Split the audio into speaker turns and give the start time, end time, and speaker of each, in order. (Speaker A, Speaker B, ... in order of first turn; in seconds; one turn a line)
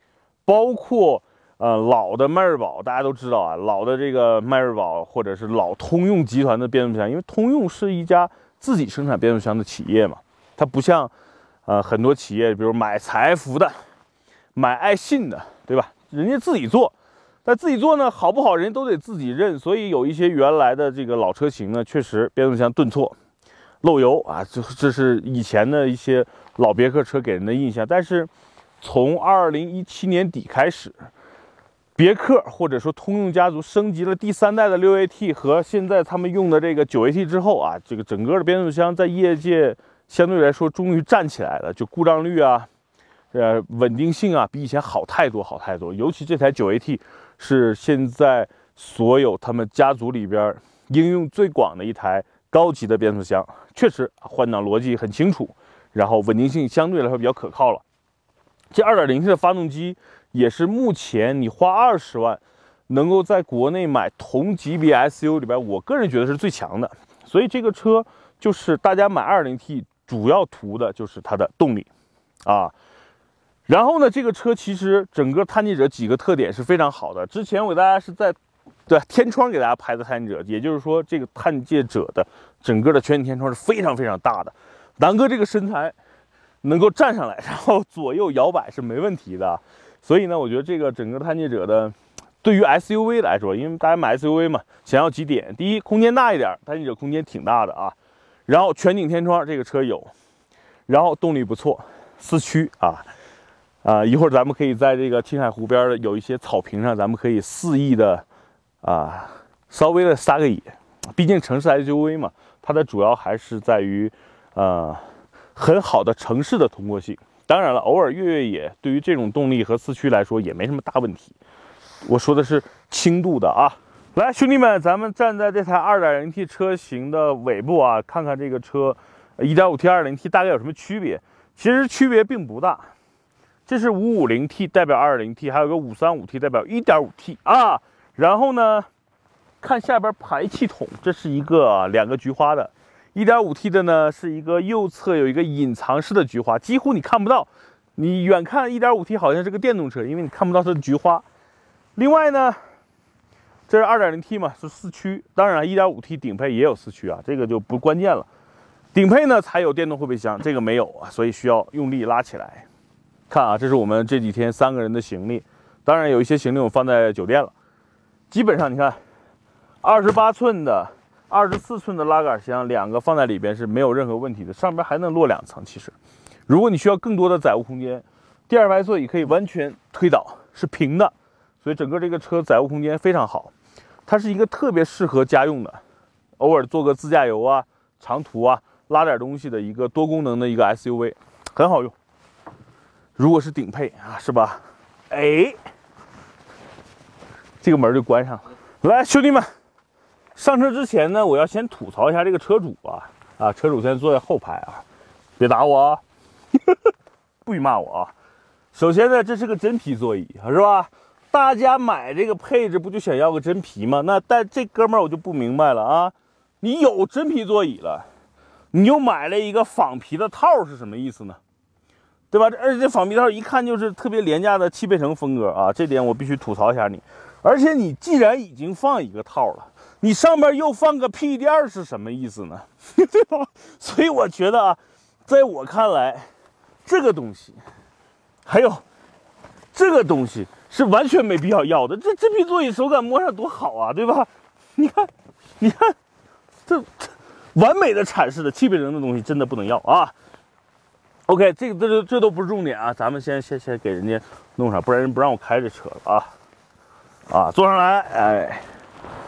Speaker A: 0.4-11.1
Speaker A: 11.7-13.8
Speaker A: 14.5-23.1
Speaker A: 23.8-28.3
Speaker A: 28.8-31.1
Speaker A: 31.9-42.7
Speaker A: 43.3-57.8
Speaker A: 58.7-71.9
Speaker A: 72.4-72.7
Speaker A: 73.7-86.0
Speaker A: 86.6-98.0
Speaker A: 98.5-100.1
Speaker A: 100.9-103.1
Speaker A: 103.8-108.2
Speaker A: 108.8-121.3
Speaker A: 122.0-132.9
Speaker A: 133.7-138.9
Speaker A: 139.6-151.2
Speaker A: 151.9-152.6
Speaker A: 153.7-158.3
Speaker A: 158.9-162.7
Speaker A: 163.3-167.5
Speaker A: 168.3-169.0
Speaker A: 169.8-175.9
Speaker A: 176.5-183.5
Speaker A: 184.1-185.8
Speaker A: 186.4-191.9
Speaker A: 193.2-195.6
Speaker A: 197.6-199.5
Speaker A: 200.3-204.8
Speaker A: 205.4-206.0
Speaker A: 207.4-208.1
Speaker A: 208.7-218.1
Speaker A: 218.7-221.4
Speaker A: 222.3-236.3
Speaker A: 236.8-237.6
Speaker A: 238.4-238.8
Speaker A: 239.7-245.9
Speaker A: 246.7-250.1
Speaker A: 251.3-256.3
Speaker A: 257.3-258.6